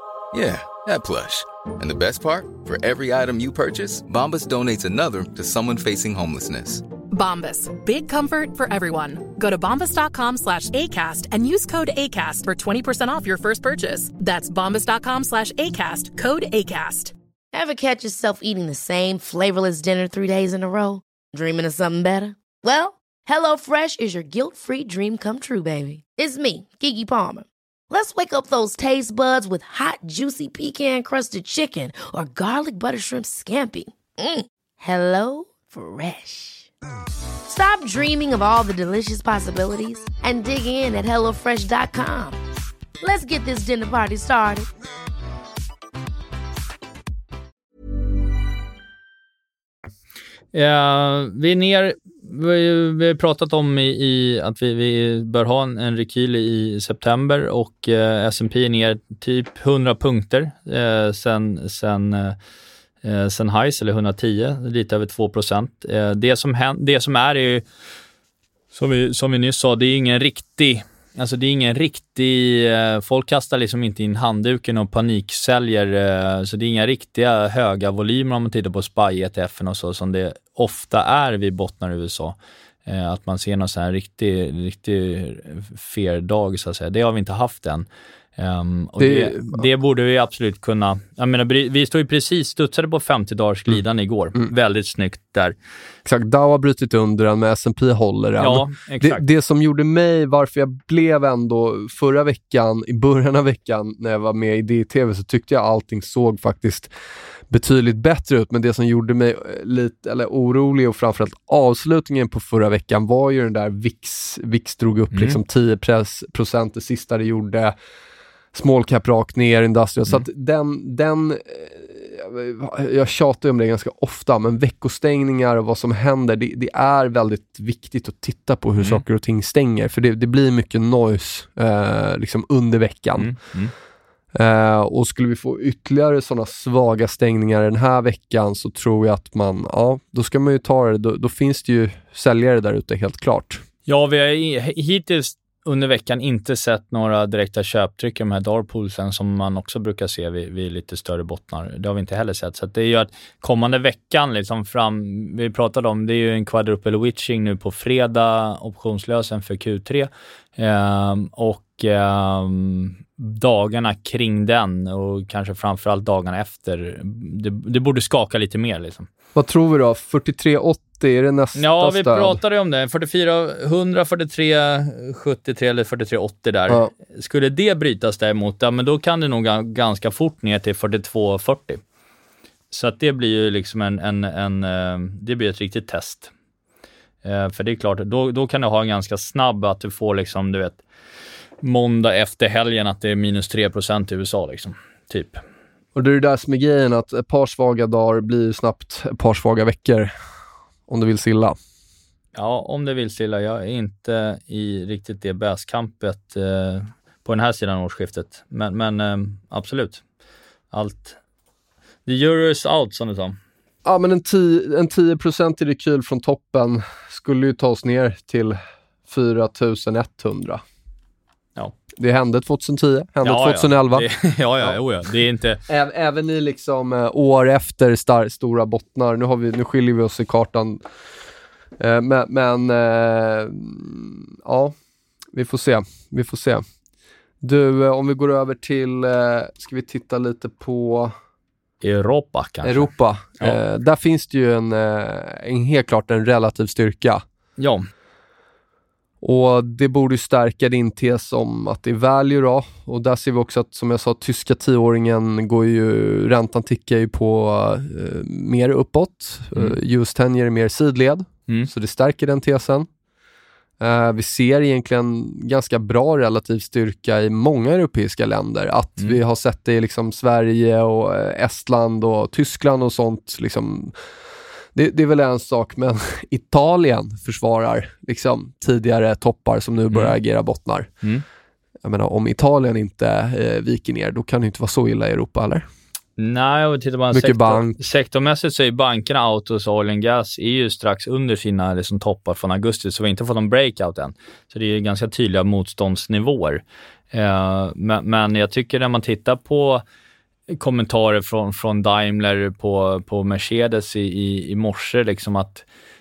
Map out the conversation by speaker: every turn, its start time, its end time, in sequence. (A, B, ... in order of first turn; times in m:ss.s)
0:00.3-0:06.8 A
0:07.1-0:17.1 B
0:17.5-0:36.7 C
0:37.5-0:42.4 C
0:43.0-0:44.7 C
0:50.5-1:02.4 D
1:03.0-1:07.6 D
1:08.7-1:35.6 D
1:29.0-1:29.6 E
1:36.0-1:46.9 E
1:38.4-1:39.2 D
1:47.5-1:57.7 E
1:55.1-1:55.4 D
1:58.5-2:13.4 E
2:13.2-2:13.7 D
2:14.3-2:23.6 E
2:23.9-2:49.1 D
2:49.3-2:52.4 E
2:51.6-3:01.8 D
3:02.7-3:06.3 D
3:07.2-3:10.8 D
3:11.6-3:15.4 D
3:15.9-3:20.1 E
3:20.9-3:21.6 E
3:22.3-3:30.0 D
3:30.7-3:31.2 D
3:32.0-3:33.4 D
3:33.8-3:40.6 E
3:42.0-3:44.0 E
3:43.2-3:45.6 D
3:45.7-3:50.8 E
3:51.8-3:54.7 E
3:55.3-3:56.6 E
3:57.4-4:01.1 E
4:01.8-4:03.6 D
4:02.6-4:07.2 E
4:07.6-4:07.8 D
4:09.2-4:22.9 E
4:23.8-4:34.0 E
4:34.7-4:40.9 E
4:41.8-4:45.6 E
4:46.2-4:59.8 D
4:47.1-4:47.8 E
5:00.5-5:05.6 D